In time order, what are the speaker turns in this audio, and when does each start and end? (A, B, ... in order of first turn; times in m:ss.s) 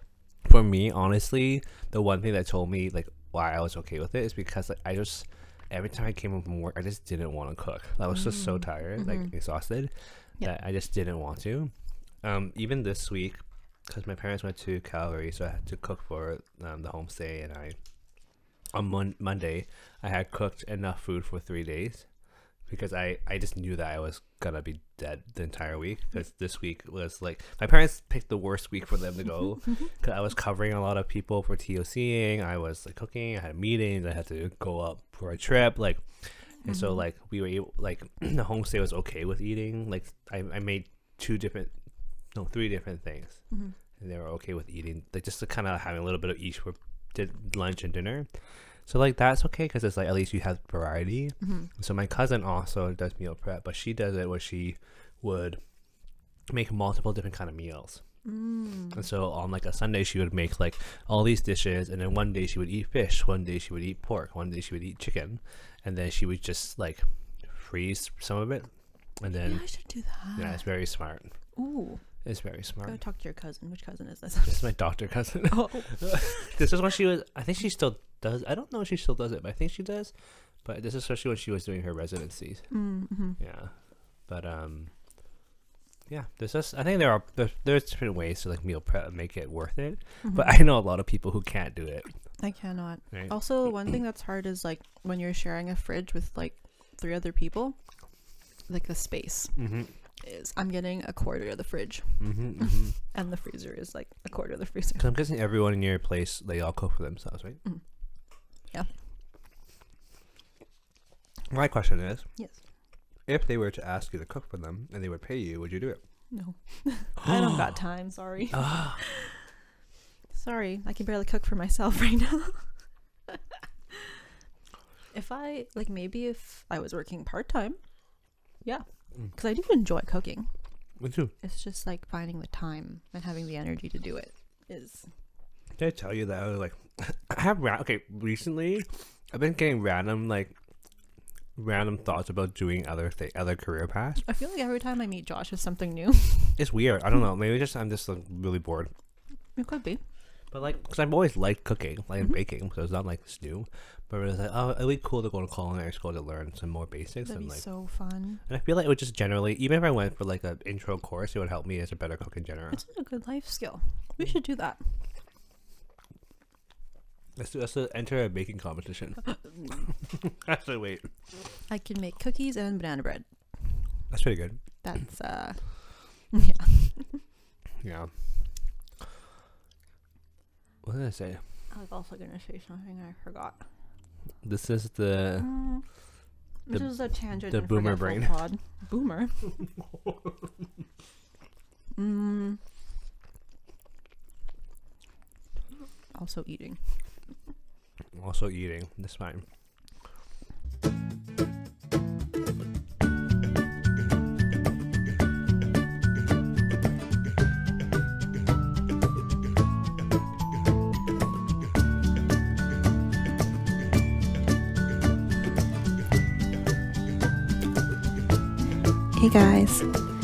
0:00.4-0:11.7 A
0:08.2-0:09.3 B
0:12.2-0:17.8 A
0:18.7-0:22.0 A
0:22.7-0:36.0 A
0:36.6-0:41.7 A
0:42.3-0:43.4 A
0:44.0-0:48.3 A
0:48.9-0:55.6 A
0:51.4-0:51.7 B
0:56.5-0:58.0 A
0:58.2-0:59.0 B
0:58.9-1:08.7 A
1:09.2-1:09.6 A
1:09.3-1:10.6 B
1:10.4-1:11.3 A
1:11.6-1:12.0 B
1:12.2-1:13.0 A
1:12.8-1:14.6 B
1:14.4-1:20.1 A
1:15.5-1:16.6 B
1:20.6-1:22.6 A
1:22.7-1:23.4 B
1:23.4-1:23.7 A
1:24.3-1:24.9 A
1:26.1-1:32.1 A
1:30.2-1:30.6 B
1:32.4-1:37.8 B
1:38.7-1:39.6 B
1:39.6-1:39.9 A
1:40.2-1:45.1 B
1:42.2-1:43.0 A
1:45.0-1:47.6 A
1:51.5-1:52.2 A
1:53.3-1:56.0 A
1:56.3-1:59.4 B
1:57.2-1:57.8 A
1:58.5-1:59.0 A
2:00.3-2:02.6 B
2:05.1-2:07.8 B
2:08.6-2:10.5 B
2:11.0-2:11.3 A
2:11.4-2:15.0 B
2:15.8-2:20.5 A
2:21.6-2:24.2 A
2:24.2-2:26.6 B
2:26.6-2:28.9 A
2:29.6-2:30.0 B
2:30.5-2:37.6 A
2:37.2-2:38.4 B
2:38.5-2:42.8 A
2:42.7-2:44.8 B
2:47.4-2:49.3 A
2:49.9-2:51.1 A
2:51.7-2:53.2 B
2:54.1-2:54.6 A
2:54.8-2:55.6 B
2:56.3-2:57.2 B
2:57.8-2:58.1 A
3:00.8-3:01.4 A
3:01.7-3:03.6 B
3:04.4-3:05.5 A
3:05.4-3:05.8 B
3:06.6-3:09.6 B
3:07.5-3:08.3 A
3:12.0-3:12.6 B
3:16.1-3:16.8 B
3:18.1-3:19.4 A
3:39.2-3:39.9 B